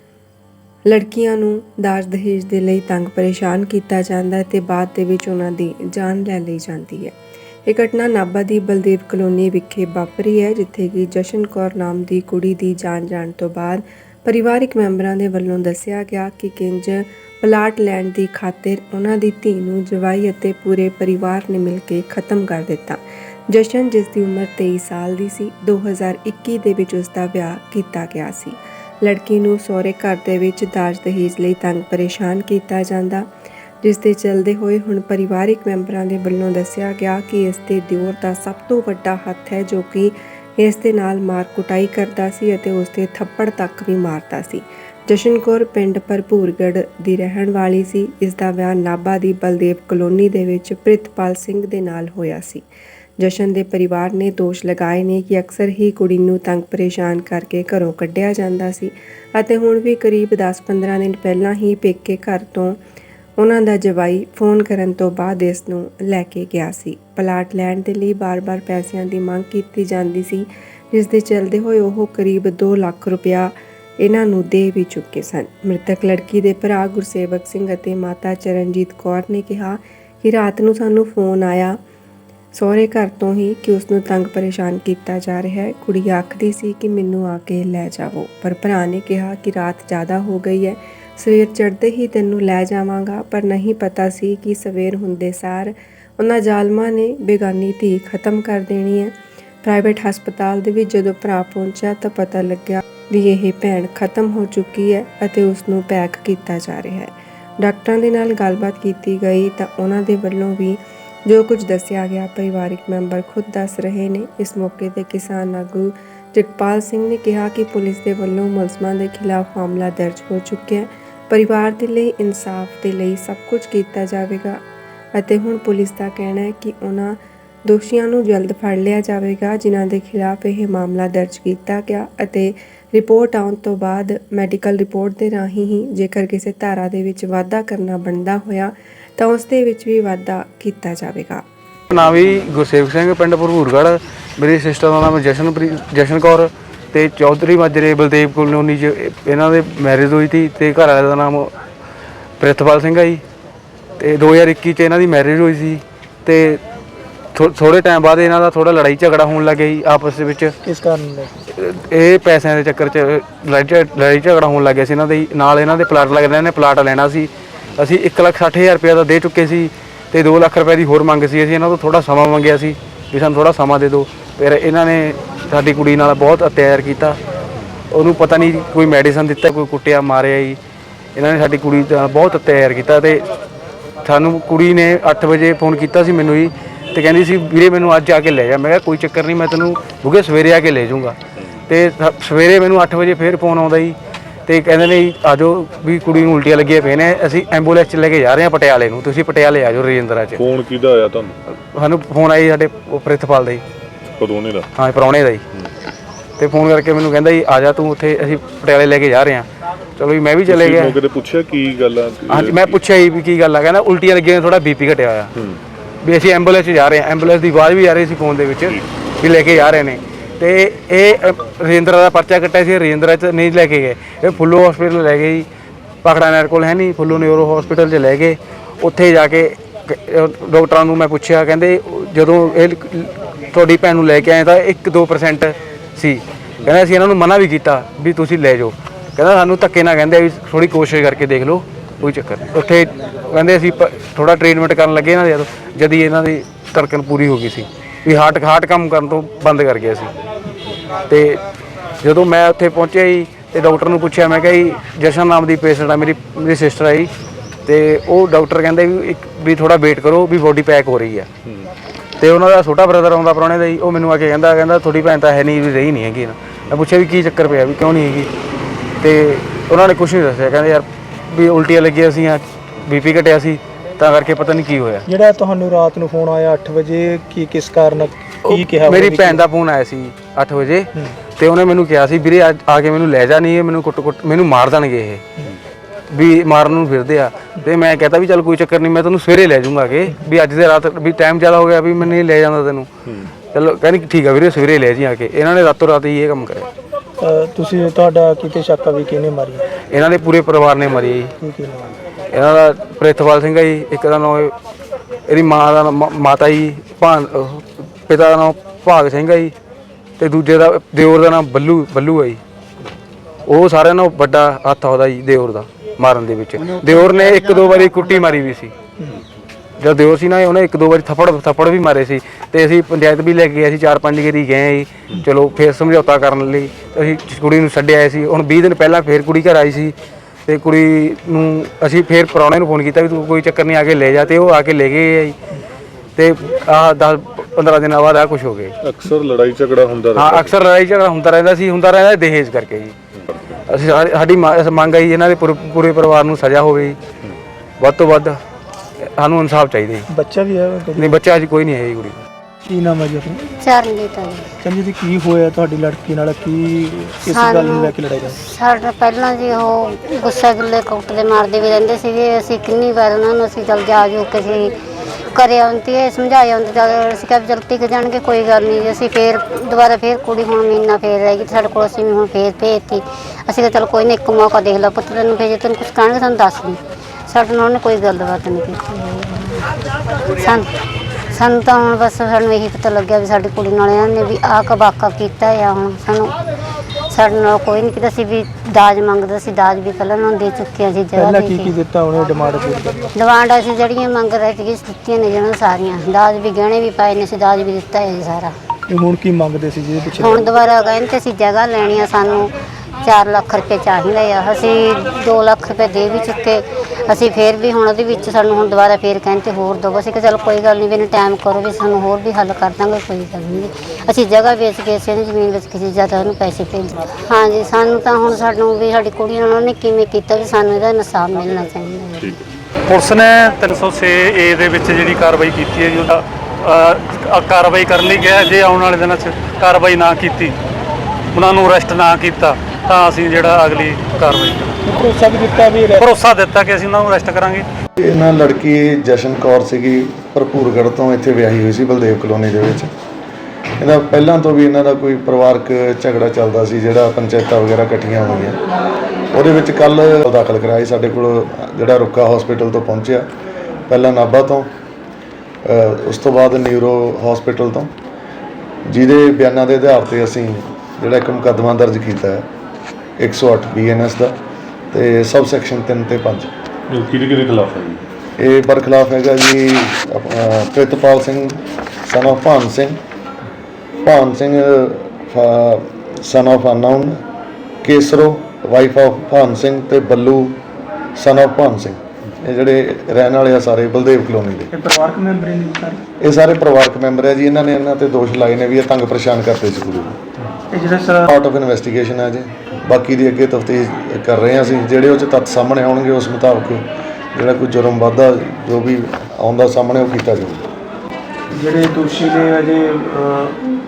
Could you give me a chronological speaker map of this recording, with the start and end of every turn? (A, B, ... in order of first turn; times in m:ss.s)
0:00.9-0:07.1 A
0:07.7-0:33.3 A
0:33.8-0:52.6 A
0:53.2-1:02.8 A
1:03.4-1:21.8 A
1:22.5-2:04.6 A
2:05.1-2:21.4 A
2:21.9-2:31.5 B
2:32.4-2:33.2 B
2:34.0-2:36.6 B
2:37.3-2:40.5 B
2:40.6-2:41.3 C
2:41.5-2:57.2 B
2:57.9-3:00.6 B
3:01.1-3:03.2 B
3:04.0-3:11.2 B
3:11.7-3:20.4 B
3:20.4-3:21.3 D
3:21.7-3:23.6 B
3:24.2-3:24.7 D
3:24.8-3:25.4 B
3:26.4-3:29.5 B
3:30.0-3:30.9 B
3:30.5-3:32.8 D
3:32.3-3:35.3 B
3:36.0-3:45.4 B
3:46.0-4:10.1 B
4:11.1-4:11.4 B
4:12.0-4:17.1 B
4:17.6-4:21.3 B
4:21.4-4:21.7 D
4:22.2-4:28.3 B
4:29.0-4:35.0 B
4:35.1-4:39.4 C
4:38.4-4:45.2 B
4:46.1-4:52.9 B
4:53.5-4:56.7 B
4:57.2-4:59.7 C
4:59.9-5:01.3 B
5:01.4-5:02.0 C
5:02.3-5:04.5 B
5:05.3-5:09.5 B
5:10.2-5:12.4 B
5:13.5-5:18.7 B
5:19.8-5:29.9 B
5:30.4-5:35.3 B
5:36.2-5:38.7 B
5:38.8-5:40.6 D
5:40.1-5:42.9 B
5:43.7-5:47.0 B
5:47.8-5:48.4 B
5:49.2-5:50.1 B
5:50.1-5:51.2 C
5:50.9-5:52.2 B
5:52.6-5:53.4 C
5:53.6-5:54.5 E
5:54.6-5:58.4 C
5:57.3-6:04.8 E
6:05.3-6:19.7 E
6:20.2-6:20.7 E
6:21.3-6:26.3 E
6:27.1-6:31.7 E
6:31.1-6:33.1 C
6:33.2-6:38.6 E
6:38.9-6:40.5 C
6:40.2-7:02.2 E
7:02.9-7:10.6 F
7:11.3-7:14.8 F
7:14.8-7:16.2 C
7:16.0-7:17.6 F
7:18.0-7:22.9 G
7:23.8-7:28.6 G
7:29.3-7:33.3 G
7:33.9-7:34.7 G
7:35.6-7:37.9 G
7:38.9-7:42.4 G
7:43.2-7:44.4 G
7:44.9-7:46.5 G
7:46.9-7:48.0 D
7:48.4-7:53.0 G
7:54.0-7:57.2 G
7:57.8-8:00.6 G
8:01.2-8:04.7 G
8:04.7-8:06.0 C
8:06.2-8:10.2 G
8:10.7-8:11.2 C
8:11.2-8:16.8 G
8:17.3-8:20.6 G
8:21.5-8:23.6 C